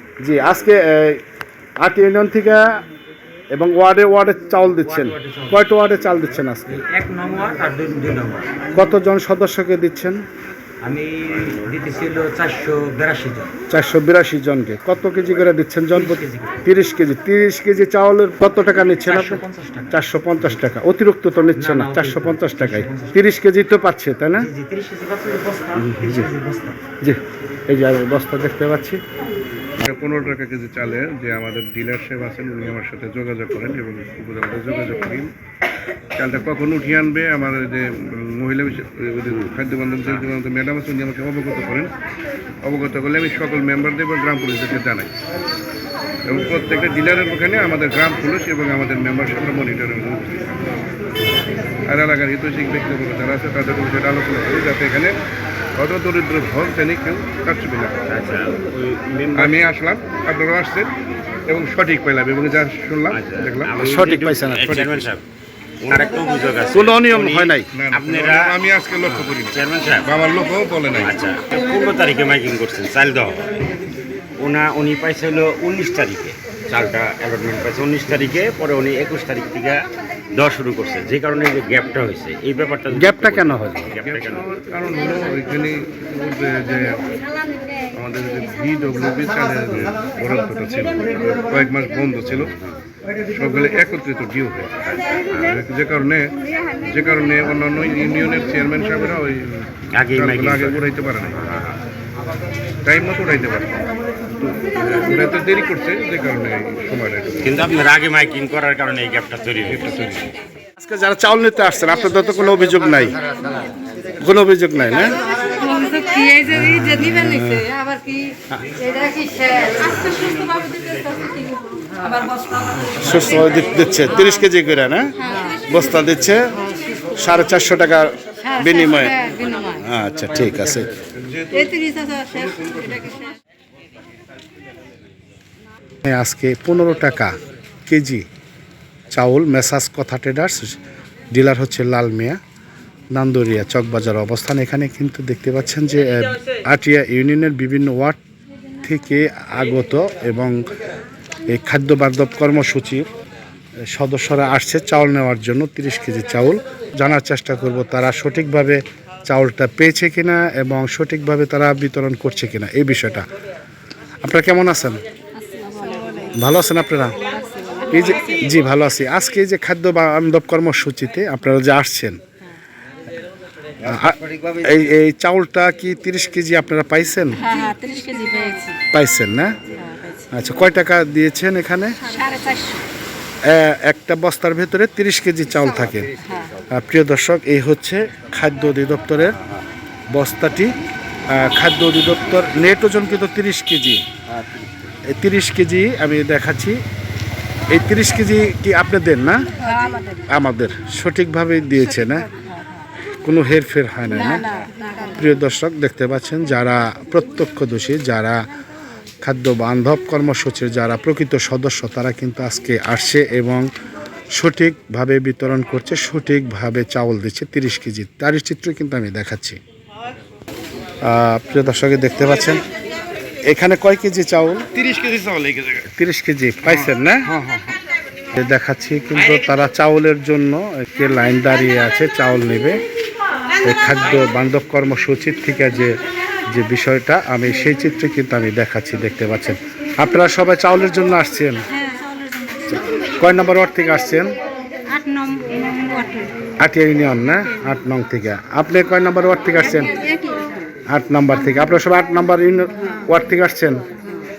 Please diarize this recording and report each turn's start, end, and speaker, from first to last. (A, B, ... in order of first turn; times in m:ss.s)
0:00.2-0:01.2 A
0:01.8-0:02.8 A
0:03.5-0:06.8 A
0:04.8-0:05.6 B
0:06.7-0:08.5 B
0:08.7-0:10.2 A
0:10.8-0:13.5 B
0:13.7-0:24.5 A
0:16.0-0:16.6 B
0:19.0-0:19.9 B
0:21.6-0:23.2 B
0:24.4-0:26.8 B
0:25.8-0:26.3 A
0:27.0-0:29.0 A
0:29.8-0:35.3 C
0:36.2-0:41.9 C
0:42.6-0:45.1 C
0:46.2-0:50.4 C
0:51.9-0:55.2 C
0:55.8-0:58.0 C
0:58.1-0:59.7 D
0:59.3-1:00.9 C
1:01.5-1:03.8 C
1:03.1-1:05.2 D
1:03.8-1:04.8 A
1:04.6-1:05.1 C
1:05.8-1:10.1 D
1:06.7-1:07.7 A
1:07.7-1:11.2 C
1:11.0-1:13.4 D
1:14.4-1:24.5 D
1:22.9-1:23.9 A
1:24.0-1:27.0 C
1:27.9-1:32.5 C
1:32.3-1:32.7 D
1:33.3-1:36.3 C
1:36.8-1:41.4 C
1:39.9-1:40.9 D
1:42.8-1:47.7 C
1:47.4-1:50.0 D
1:49.6-1:50.3 C
1:50.8-1:53.2 A
1:54.2-1:55.2 A
1:55.4-2:02.6 E
1:56.4-1:57.7 A
2:02.7-2:06.5 A
2:07.1-2:10.9 A
2:09.0-2:09.8 E
2:11.2-2:11.7 C
2:11.6-2:13.2 E
2:12.4-2:13.2 C
2:16.0-2:17.3 A
2:17.9-2:18.2 A
2:19.1-2:20.8 A
2:21.3-2:22.4 A
2:23.1-2:28.2 A
2:28.8-2:30.6 A
2:31.5-2:33.0 A
2:33.9-2:43.2 A
2:44.2-2:45.0 A
2:45.5-2:46.3 E
2:46.3-2:47.2 A
2:47.9-2:52.2 A
2:53.8-2:57.7 A
2:57.4-2:58.8 E
2:58.9-2:59.6 A
3:00.2-3:02.0 A
3:02.1-3:02.8 E
3:03.4-3:06.1 A
3:06.2-3:06.5 E
3:06.7-3:09.3 A
3:10.1-3:10.7 A
3:11.3-3:14.0 A
3:15.1-3:16.8 A
3:17.7-3:19.5 A
3:19.7-3:20.2 E
3:20.3-3:22.3 A
3:23.2-3:28.4 A
3:24.6-3:25.0 E
3:29.2-3:33.7 A
3:34.4-3:39.6 A
3:41.0-3:42.6 A
3:43.5-3:44.6 A
3:44.7-3:45.9 C
3:46.0-3:47.2 A
3:46.7-3:47.7 C
3:48.3-3:52.8 A
3:53.6-3:55.9 A
3:56.5-4:01.7 A
4:01.8-4:02.8 E
4:03.2-4:04.3 A
4:04.9-4:06.3 E
4:06.6-4:10.0 A
4:10.0-4:10.4 E
4:10.9-4:13.8 A